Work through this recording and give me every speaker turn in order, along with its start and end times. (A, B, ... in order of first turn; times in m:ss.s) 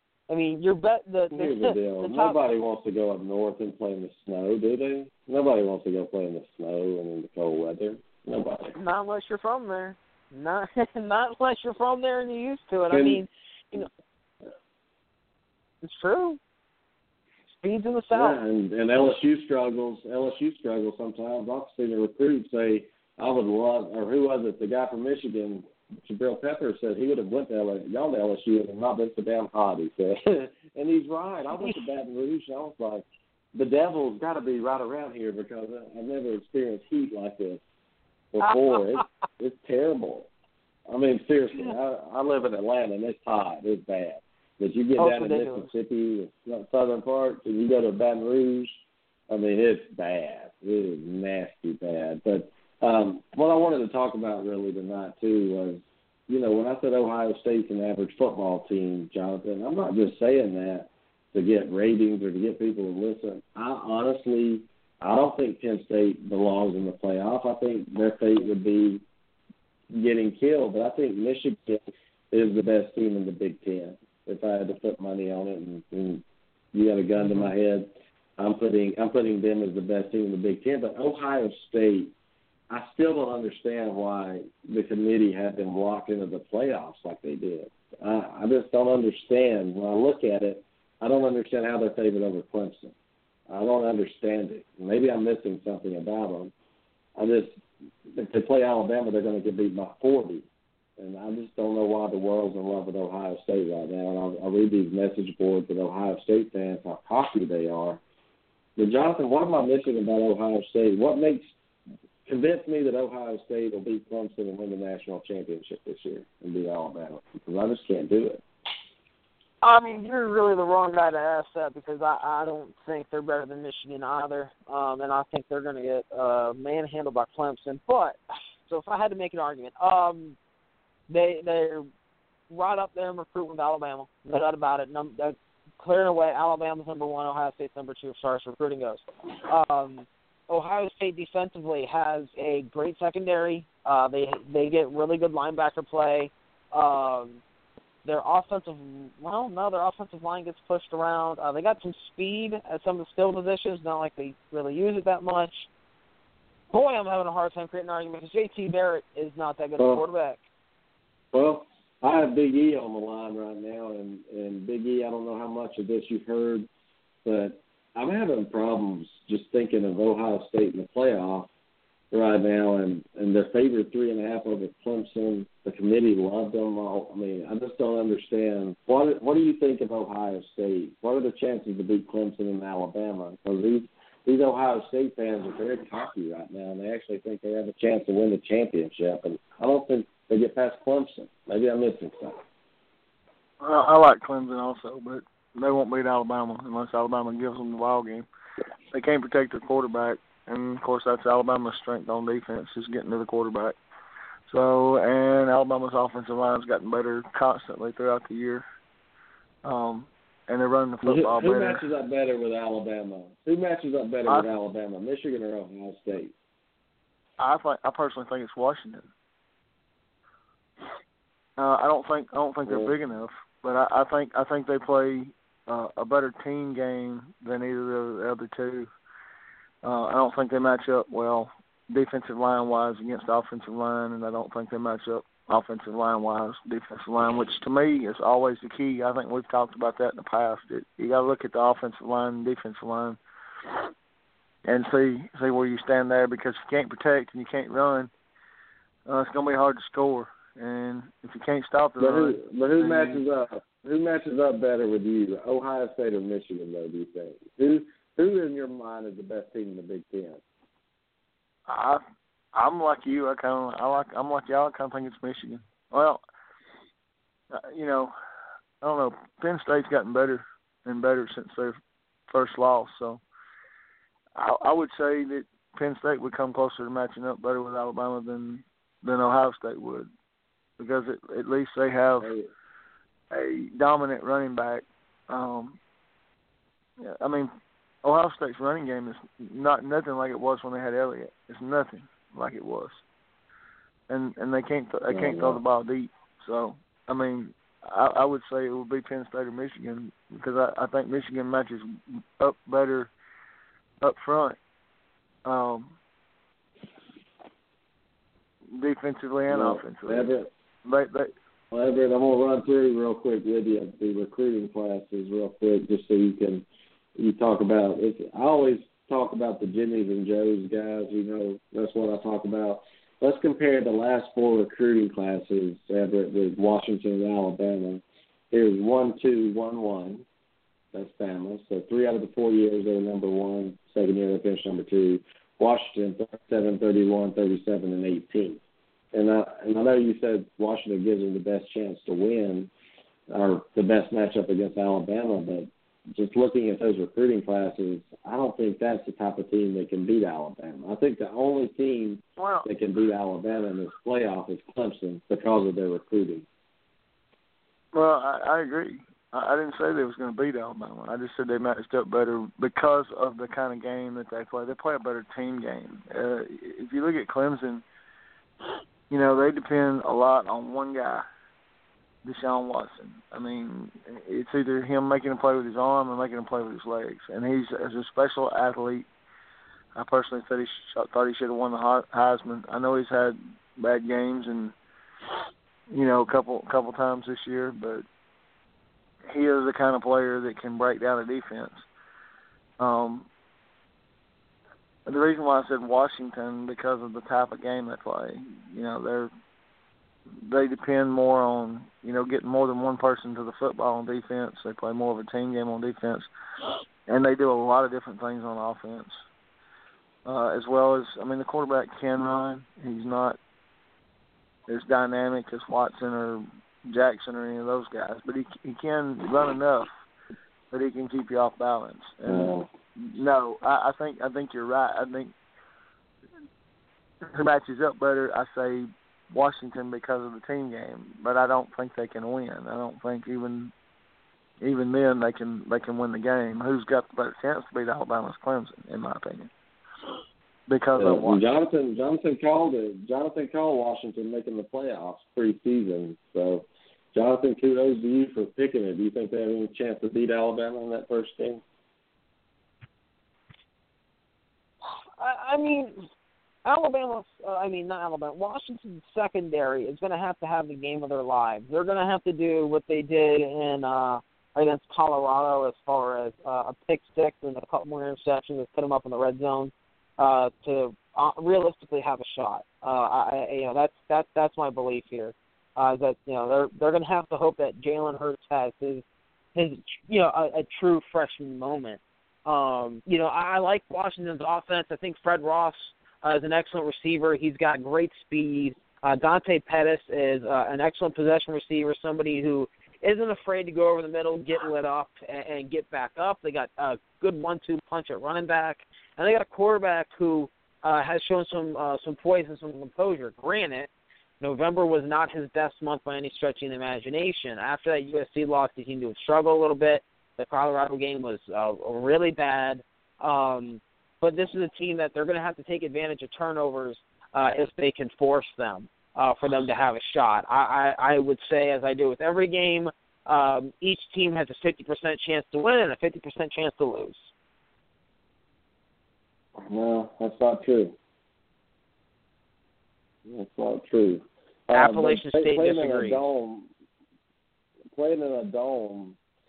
0:00.3-0:02.4 A
0:01.3-0:08.8 B
0:08.7-0:13.9 A
0:12.9-0:13.2 B
0:15.8-0:16.4 A
0:17.6-0:18.4 A
0:18.1-0:37.6 B
0:38.3-0:40.3 B
0:40.9-0:48.7 B
0:45.0-0:45.7 A
0:49.3-1:09.0 B
1:09.9-1:22.1 B
1:22.7-1:32.9 B
1:33.5-1:36.5 B
1:37.2-1:37.6 B
1:38.1-1:40.5 B
1:41.0-1:48.0 B
1:48.8-1:51.5 B
1:52.2-1:58.4 B
1:59.6-2:10.4 A
2:11.1-2:11.9 A
2:12.5-2:27.4 A
2:28.0-2:35.7 A
2:36.7-2:40.4 A
2:41.3-2:46.7 B
2:47.2-2:51.5 B
2:52.1-3:12.4 B
3:13.6-3:18.2 C
3:18.9-3:23.7 C
3:24.5-3:28.6 C
3:29.6-3:31.8 C
3:31.0-3:36.3 B
3:37.4-3:39.0 C
3:41.6-3:48.9 C
3:42.7-3:42.9 B
3:49.8-4:03.2 C
4:04.6-4:08.1 C
4:09.1-4:13.2 C
4:12.0-4:20.4 B
4:21.7-4:22.0 C
4:22.5-4:26.2 C
4:27.5-4:28.1 C
4:28.8-4:31.8 C
4:32.3-4:33.2 C
4:34.4-4:40.1 C
4:40.8-4:42.3 C
4:42.2-4:42.5 B
4:43.3-4:45.8 C
4:47.0-4:47.5 C
4:48.0-4:53.0 C
4:54.1-5:03.1 C
4:55.1-4:55.6 B
5:04.0-5:04.6 C
5:05.4-5:06.0 C
5:08.7-5:10.3 C
5:09.5-5:10.5 B
5:10.8-5:11.3 C
5:11.7-5:16.6 B
5:17.2-5:30.2 B
5:30.9-5:38.6 B
5:39.1-5:42.7 B
5:43.3-5:56.4 B
5:52.4-5:52.7 C
5:57.9-6:07.8 C
6:09.1-6:11.2 C
6:12.2-6:19.1 C
6:19.9-6:24.7 C
6:25.9-6:28.0 C
6:29.3-6:31.8 C
6:32.8-6:33.3 C
6:35.0-6:39.3 C
6:40.4-6:46.3 C
6:47.1-6:49.2 C
6:50.2-6:53.4 C
6:54.7-6:59.9 C
7:00.7-7:05.3 C
7:02.3-7:02.6 B
7:07.2-7:13.7 C
7:14.6-7:19.5 C
7:20.7-7:21.4 C
7:21.0-7:31.6 B
7:34.8-7:36.0 A
7:36.6-7:59.0 A
7:59.5-8:23.9 A
8:24.4-8:47.3 A
8:49.6-8:50.9 B
8:53.2-8:56.7 B
8:54.7-8:56.2 A
8:57.9-8:59.2 B